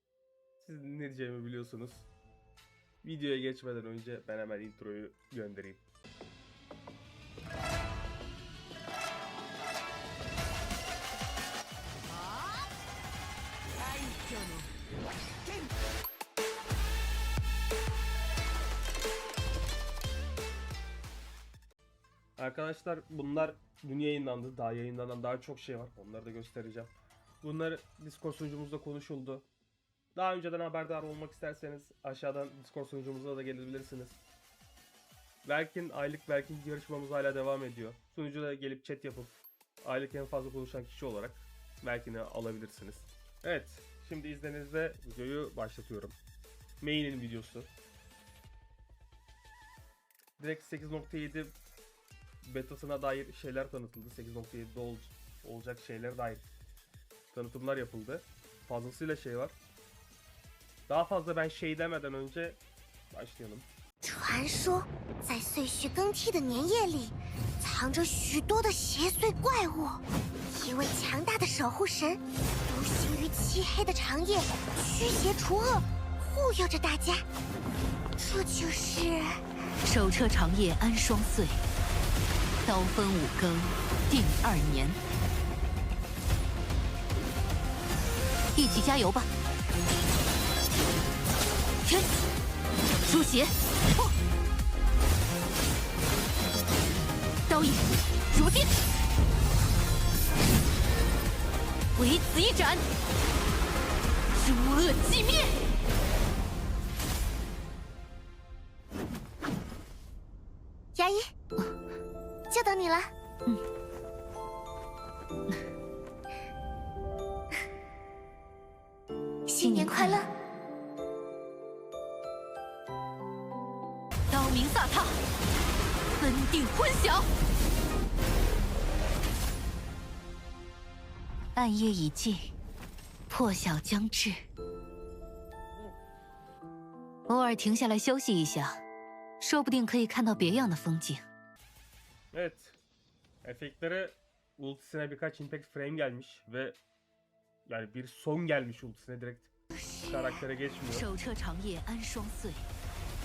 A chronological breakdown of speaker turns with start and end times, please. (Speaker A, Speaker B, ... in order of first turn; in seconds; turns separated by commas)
Speaker A: 0.6-2.1, Speaker A: 3.0-5.8, Speaker A: 22.4-29.5, Speaker A: 30.1-34.2, Speaker A: 35.4-46.2, Speaker A: 46.8-47.7, Speaker A: 50.4-51.5, Speaker A: 52.4-56.5, Speaker A: 57.3-59.5, Speaker A: 60.9-62.6, Speaker A: 63.1-63.7, Speaker B: 64.0-77.3, Speaker B: 78.2-79.4, Speaker C: 79.8-81.6, Speaker C: 82.6-85.0, Speaker C: 88.5-89.3, Speaker C: 93.0-94.1, Speaker C: 97.5-98.7, Speaker C: 101.9-102.8, Speaker C: 104.4-105.5, Speaker B: 110.9-111.3, Speaker B: 112.5-113.1, Speaker B: 119.5-120.3, Speaker C: 119.6-120.2, Speaker C: 124.3-125.2, Speaker C: 126.2-127.3, Speaker C: 131.5-132.5, Speaker C: 133.3-134.4, Speaker C: 137.3-138.8, Speaker C: 139.4-141.2, Speaker A: 142.3-142.8, Speaker A: 143.4-146.8, Speaker A: 147.7-149.5, Speaker A: 150.0-151.1, Speaker C: 150.9-152.7